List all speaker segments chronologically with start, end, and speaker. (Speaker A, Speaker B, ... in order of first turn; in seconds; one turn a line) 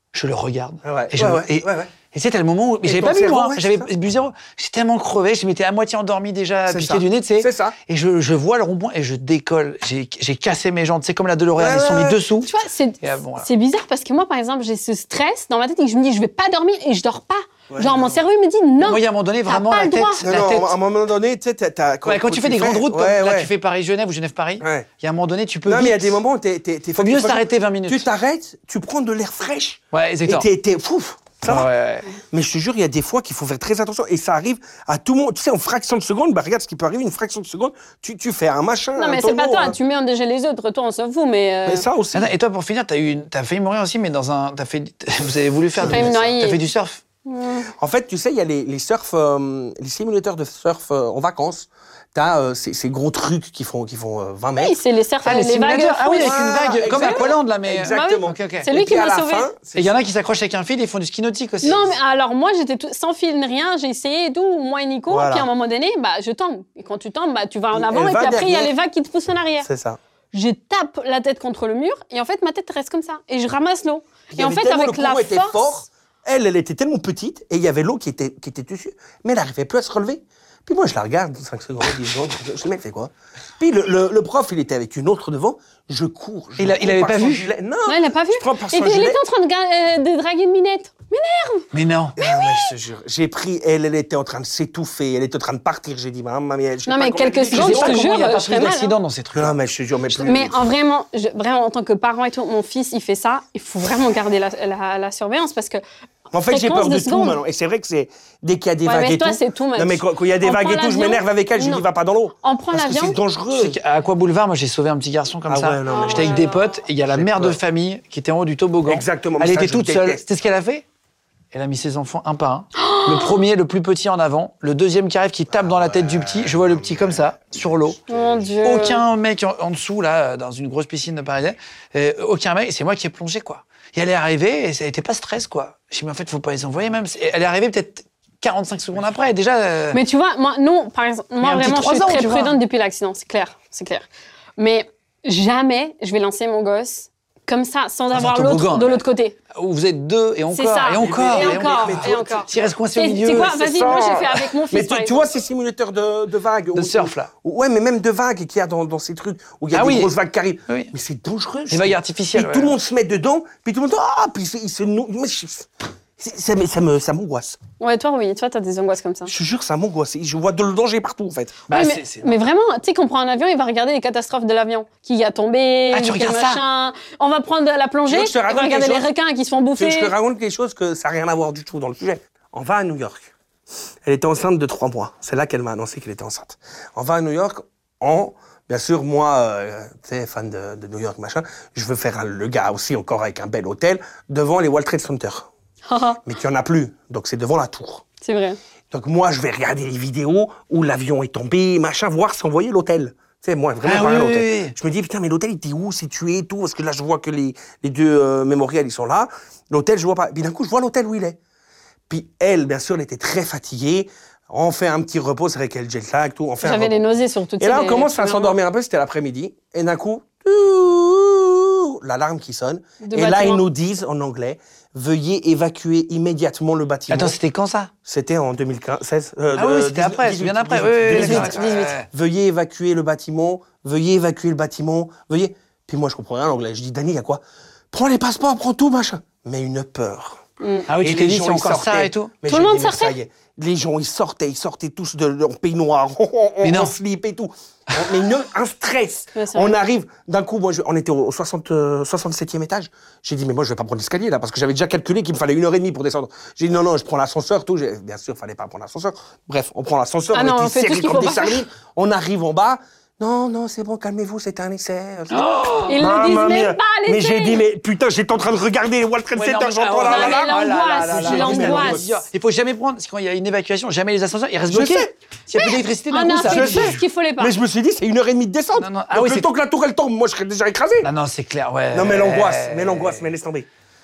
Speaker A: 0.1-13.5
Speaker B: 0.8-1.9
Speaker B: 2.8-3.9
Speaker B: 6.7-7.8
Speaker B: 11.6-12.2
Speaker C: 12.4-20.2
Speaker B: 17.7-18.2
Speaker A: 18.8-20.7
Speaker B: 20.2-23.5
Speaker A: 22.1-26.2
Speaker B: 24.6-24.9
Speaker B: 25.7-31.7
Speaker A: 27.0-28.1
Speaker A: 29.9-30.5
Speaker A: 31.4-32.1
Speaker B: 32.3-39.8
Speaker C: 39.0-41.9
Speaker B: 41.7-42.3
Speaker A: 42.1-47.0
Speaker B: 45.8-46.4
Speaker C: 45.9-46.6
Speaker C: 47.3-47.7
Speaker B: 47.8-54.8
Speaker C: 54.6-57.4
Speaker A: 55.2-58.7
Speaker B: 56.2-60.0
Speaker C: 57.9-59.5
Speaker A: 59.8-61.9
Speaker C: 61.6-69.7
Speaker B: 65.1-65.5
Speaker B: 67.7-68.7
Speaker B: 69.6-70.0
Speaker C: 70.3-75.7
Speaker B: 74.3-89.2
Speaker A: 86.6-87.5
Speaker C: 87.9-92.7
Speaker A: 91.7-92.2
Speaker B: 92.2-98.0
Speaker C: 96.9-99.0
Speaker A: 97.5-100.4
Speaker B: 99.3-100.6
Speaker C: 100.2-105.8
Speaker B: 106.3-113.8
Speaker C: 106.5-107.4
Speaker C: 108.9-111.8
Speaker C: 112.4-113.2
Speaker A: 113.5-120.9
Speaker B: 115.5-116.5
Speaker C: 115.9-116.7
Speaker B: 117.1-117.6
Speaker B: 118.9-120.2
Speaker A: 121.5-128.0
Speaker C: 122.8-123.3
Speaker B: 125.5-127.2
Speaker B: 128.1-128.5
Speaker C: 128.1-129.0
Speaker A: 128.6-140.0
Speaker C: 139.9-144.1
Speaker A: 141.4-142.6
Speaker C: 144.6-149.4
Speaker A: 148.1-153.7
Speaker C: 150.5-155.3
Speaker B: 151.0-152.6
Speaker B: 153.3-167.6
Speaker A: 156.7-157.3
Speaker A: 159.7-160.1
Speaker A: 160.7-160.9
Speaker A: 161.7-162.8
Speaker C: 167.8-169.3
Speaker B: 169.3-171.6
Speaker A: 171.7-172.4
Speaker C: 171.7-180.1
Speaker A: 175.9-176.6
Speaker B: 178.1-179.1
Speaker B: 179.8-183.3
Speaker B: 184.1-195.5
Speaker C: 195.9-196.2
Speaker B: 196.2-198.1
Speaker C: 198.2-198.6
Speaker B: 198.9-211.4
Speaker A: 203.8-204.8
Speaker B: 212.1-217.0
Speaker C: 216.6-218.6
Speaker B: 217.6-227.4
Speaker C: 223.0-223.7
Speaker A: 227.1-227.9
Speaker B: 228.1-240.4
Speaker A: 229.5-232.1
Speaker C: 231.1-231.9
Speaker C: 240.6-240.9
Speaker A: 240.9-242.3
Speaker B: 241.0-272.2
Speaker C: 242.5-243.2
Speaker A: 246.6-247.0
Speaker C: 249.4-249.8
Speaker C: 260.3-261.6
Speaker A: 265.3-266.0
Speaker C: 265.9-267.6
Speaker A: 269.3-277.0
Speaker C: 270.1-272.0
Speaker B: 274.7-275.1
Speaker C: 275.6-277.6
Speaker B: 276.5-281.1
Speaker A: 278.8-279.5
Speaker A: 281.0-283.2
Speaker B: 281.9-283.7